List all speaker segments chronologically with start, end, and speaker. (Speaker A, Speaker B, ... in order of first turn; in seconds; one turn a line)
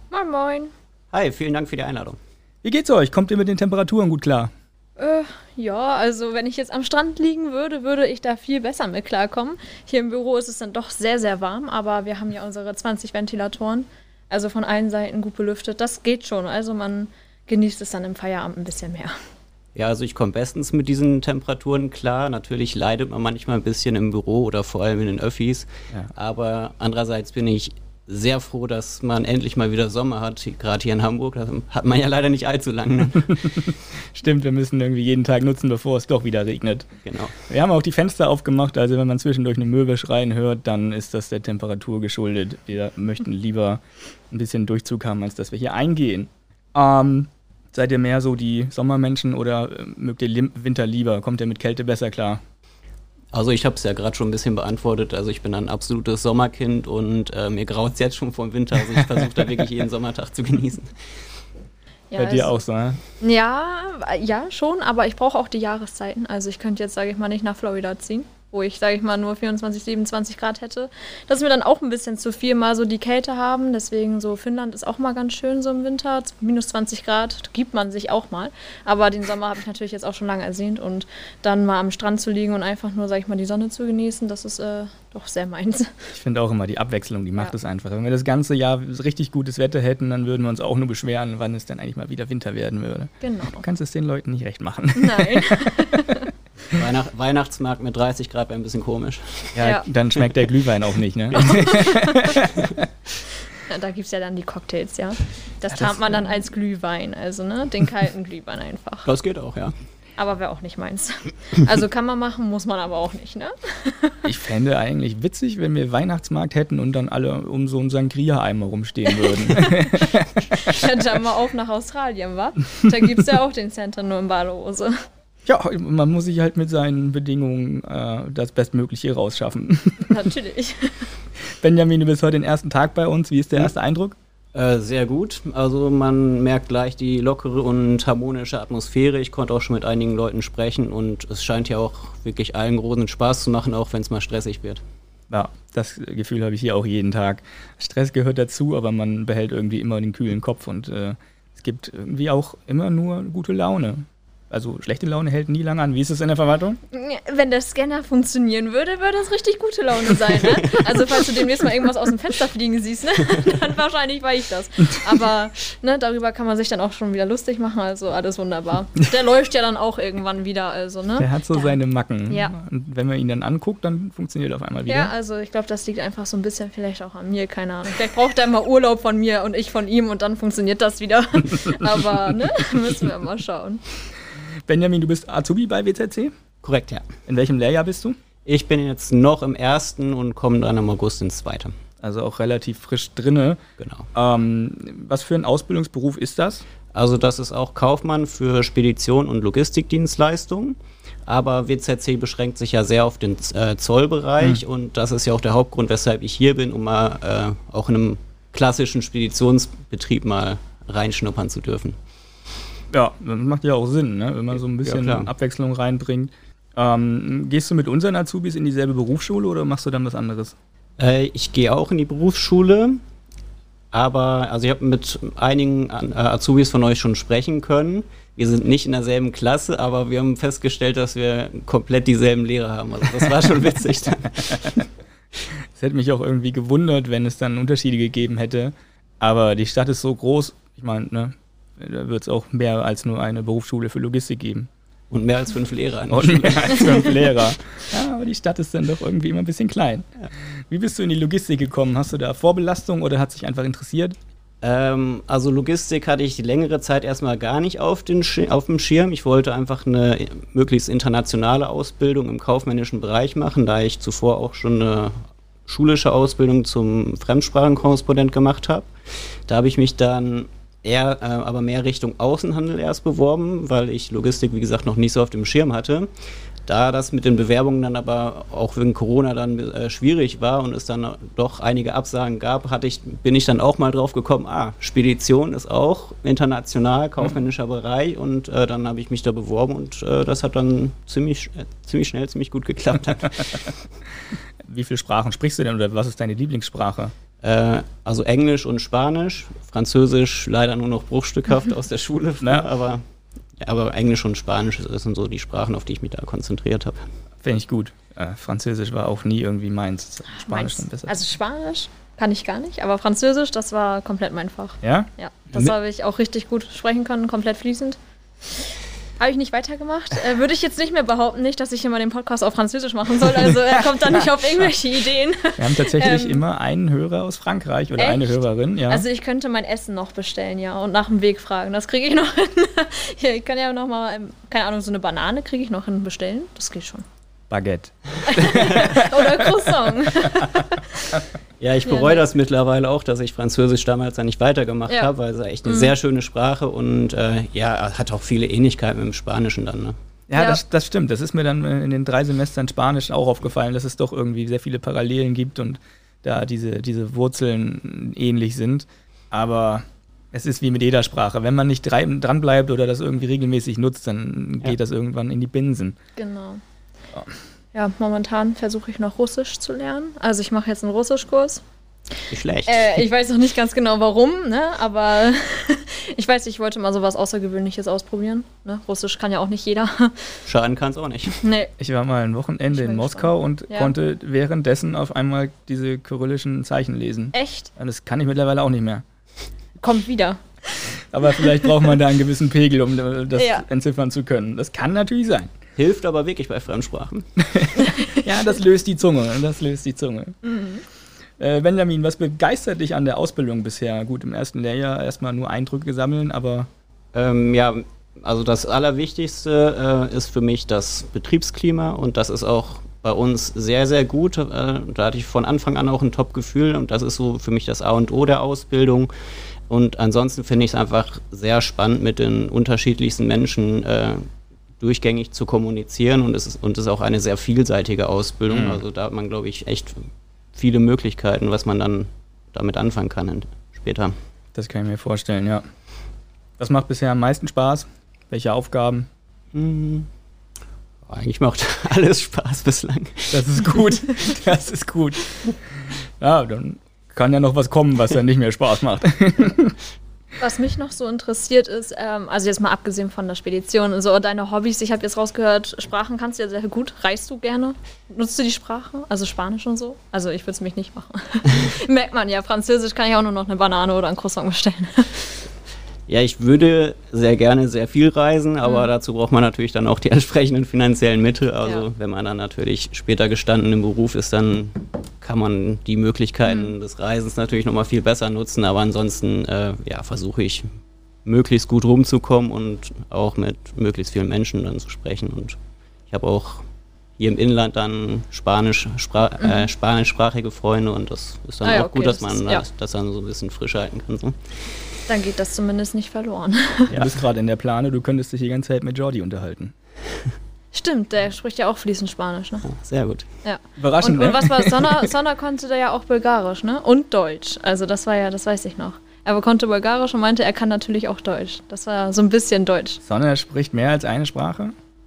Speaker A: 0.1-0.7
Speaker B: 1.1-2.2
Speaker C: 2.6-4.5
Speaker A: 5.0-19.1
Speaker B: 19.7-33.7
Speaker C: 33.4-36.9
Speaker B: 37.0-37.4
Speaker C: 37.5-52.4
Speaker B: 53.3-60.9
Speaker A: 62.1-62.5
Speaker C: 62.2-63.0
Speaker A: 63.2-85.9
Speaker C: 86.1-96.8
Speaker A: 93.2-93.6
Speaker A: 94.9-96.3
Speaker B: 96.7-99.5
Speaker C: 99.5-102.8
Speaker A: 99.6-99.9
Speaker A: 101.3-102.5
Speaker A: 103.7-109.1
Speaker C: 105.7-106.2
Speaker B: 109.0-109.7
Speaker A: 110.2-114.2
Speaker C: 114.2-121.0
Speaker A: 119.1-124.9
Speaker C: 125.5-130.3
Speaker A: 130.1-131.1
Speaker C: 131.6-134.2
Speaker B: 134.5-144.8
Speaker C: 145.3-156.8
Speaker A: 156.9-171.8
Speaker C: 171.2-175.1
Speaker A: 172.3-172.5
Speaker A: 174.9-183.8
Speaker C: 184.7-186.3
Speaker B: 186.6-187.1
Speaker C: 187.3-188.2
Speaker B: 188.4-191.7
Speaker C: 192.0-193.6
Speaker B: 193.8-194.1
Speaker C: 194.1-196.6
Speaker B: 196.9-211.9
Speaker C: 212.9-220.6
Speaker B: 214.8-215.3
Speaker B: 221.0-223.0
Speaker B: 223.9-234.8
Speaker C: 235.7-244.7
Speaker B: 245.1-247.3
Speaker C: 246.1-250.1
Speaker C: 250.7-254.2
Speaker B: 254.6-268.9
Speaker B: 269.5-276.1
Speaker B: 276.7-293.8
Speaker C: 294.6-297.1
Speaker B: 297.4-303.0
Speaker C: 302.4-302.7
Speaker B: 303.6-307.0
Speaker C: 307.4-311.2
Speaker A: 310.3-318.0
Speaker C: 314.8-315.7
Speaker A: 319.2-326.4
Speaker C: 323.3-324.3
Speaker C: 325.6-329.1
Speaker A: 328.0-337.0
Speaker C: 337.5-340.6
Speaker A: 338.2-341.2
Speaker B: 341.6-349.9
Speaker A: 341.9-342.2
Speaker A: 345.7-345.9
Speaker C: 350.3-365.9
Speaker A: 366.1-366.6
Speaker A: 367.7-371.6
Speaker B: 372.3-372.9
Speaker A: 372.7-380.4
Speaker B: 380.5-381.4
Speaker A: 381.4-381.7
Speaker C: 381.8-389.0
Speaker A: 382.7-383.9
Speaker A: 387.3-387.7
Speaker A: 389.8-390.8
Speaker C: 391.1-395.5
Speaker A: 391.4-391.7
Speaker A: 393.3-393.6
Speaker B: 395.8-397.2
Speaker C: 397.4-400.4
Speaker A: 397.8-398.3
Speaker A: 400.4-400.8
Speaker C: 401.4-406.7
Speaker B: 407.1-419.1
Speaker B: 419.7-424.3
Speaker B: 424.8-434.1
Speaker C: 428.5-428.8
Speaker C: 434.5-435.6
Speaker C: 436.6-439.1
Speaker B: 439.5-440.1
Speaker B: 441.1-443.4
Speaker C: 443.3-449.8
Speaker A: 450.4-465.3
Speaker B: 466.1-480.7
Speaker A: 468.6-468.9
Speaker A: 476.4-476.7
Speaker B: 481.2-485.6
Speaker B: 486.1-486.6
Speaker B: 487.2-494.4
Speaker A: 489.4-489.7
Speaker A: 491.6-492.6
Speaker A: 495.1-497.0
Speaker C: 496.9-499.7
Speaker A: 500.7-502.6
Speaker B: 502.7-503.2
Speaker A: 503.4-513.0
Speaker C: 503.8-505.1
Speaker C: 513.0-514.7